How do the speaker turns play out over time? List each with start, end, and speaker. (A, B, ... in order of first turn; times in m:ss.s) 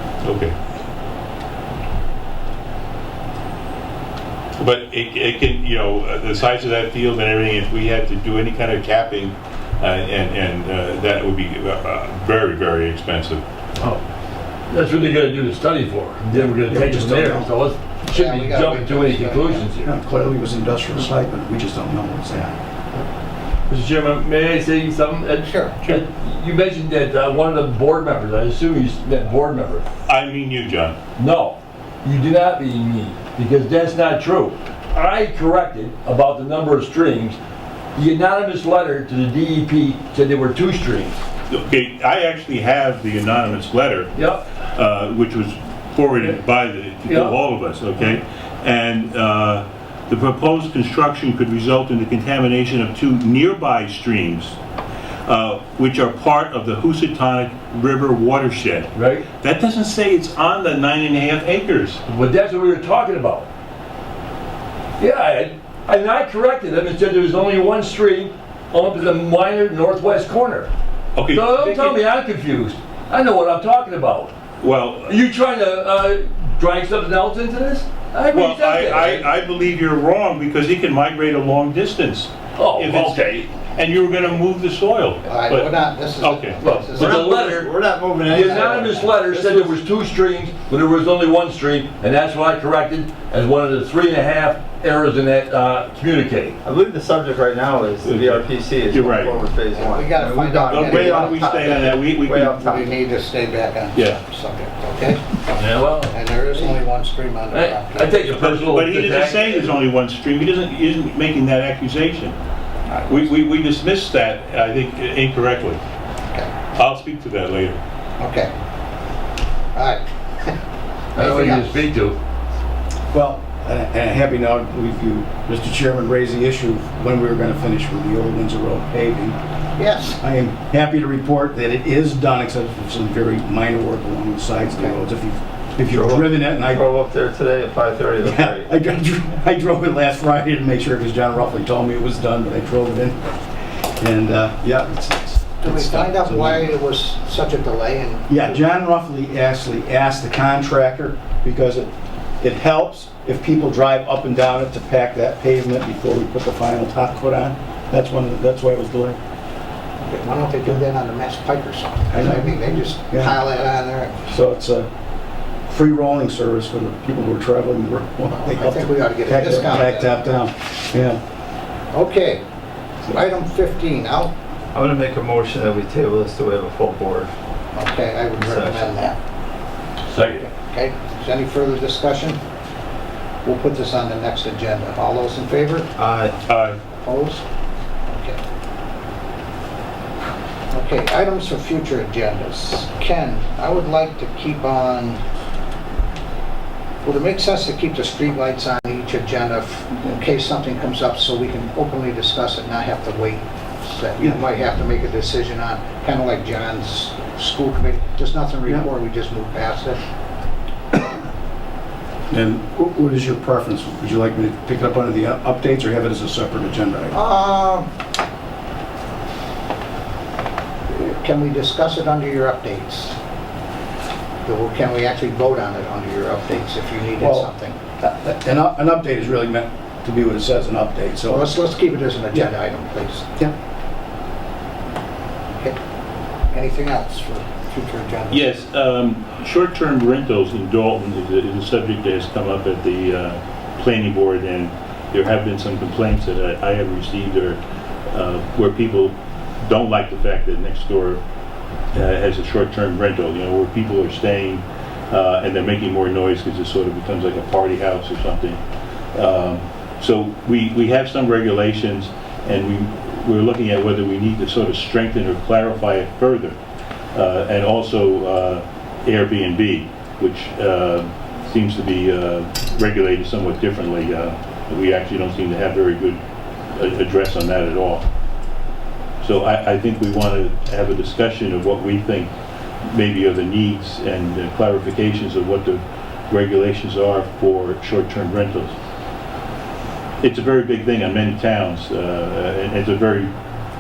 0:00.2-0:00.5 A
0:04.6-0:13.4 A
0:14.7-0:19.9 B
0:16.3-0:17.5 C
0:18.1-0:19.7 D
0:19.8-0:22.6 C
0:23.7-0:29.8 B
0:25.4-0:25.8 D
0:30.1-0:31.0 A
0:31.2-0:37.4 B
0:38.0-0:41.2 B
0:41.5-0:44.1 A
0:44.1-0:44.5 B
0:44.7-0:54.6 A
0:47.0-0:47.4 B
0:55.3-1:02.0 A
0:59.0-0:59.3 B
1:02.1-1:03.5 B
1:05.0-1:10.7 B
1:11.2-1:12.0 A
1:11.3-1:14.3 B
1:14.6-1:15.1 A
1:15.0-1:19.3 B
1:18.3-1:27.7 A
1:22.6-1:23.5 B
1:25.3-1:27.3 D
1:26.6-1:27.7 B
1:27.0-1:29.0 E
1:28.3-1:29.2 D
1:28.3-1:36.6 B
1:29.4-1:29.7 A
1:36.6-1:43.0 E
1:38.0-1:39.4 A
1:39.7-1:41.8 D
1:40.7-1:42.8 A
1:42.7-1:48.3 D
1:43.9-1:44.2 A
1:45.6-1:46.2 B
1:47.5-1:49.6 B
1:48.3-1:52.4 A
1:52.9-1:53.3 D
1:53.1-1:55.8 A
1:56.8-1:57.8 A
1:58.2-1:58.5 D
1:59.8-2:00.6 D
2:01.2-2:01.9 D
2:01.2-2:02.2 B
2:03.1-2:09.4 C
2:09.8-2:10.2 D
2:10.2-2:16.9 C
2:15.9-2:18.8 E
2:18.2-2:23.2 C
2:24.0-2:26.7 C
2:25.6-2:28.3 D
2:28.3-2:39.2 C
2:40.0-2:44.2 D
2:42.1-2:43.4 C
2:44.3-2:44.9 C
2:45.7-2:51.2 C
2:48.3-2:50.1 D
2:51.9-2:52.4 D
2:53.1-2:54.3 D
2:54.7-2:57.3 E
2:57.7-2:59.2 D
2:58.4-2:58.9 E
3:00.1-3:00.4 B
3:00.3-3:02.4 D
3:03.4-3:05.9 D
3:06.0-3:06.4 E
3:06.5-3:06.8 A
3:07.0-3:07.4 D
3:08.1-3:08.4 D
3:10.7-3:15.2 D
3:17.0-3:30.0 D
3:32.3-3:37.2 C
3:37.1-3:37.9 D
3:40.9-3:43.2 D
3:44.4-3:47.8 D
3:47.2-3:47.5 C
3:48.0-3:51.5 C
3:51.3-3:53.3 D
3:56.5-3:58.6 D
3:58.3-4:07.6 A
4:08.1-4:11.2 A
4:11.9-4:18.6 A
4:19.1-4:26.6 A
4:27.2-4:36.2 A
4:36.7-4:38.0 A
4:39.2-4:42.3 A
4:42.8-4:48.7 A
4:50.2-4:53.3 A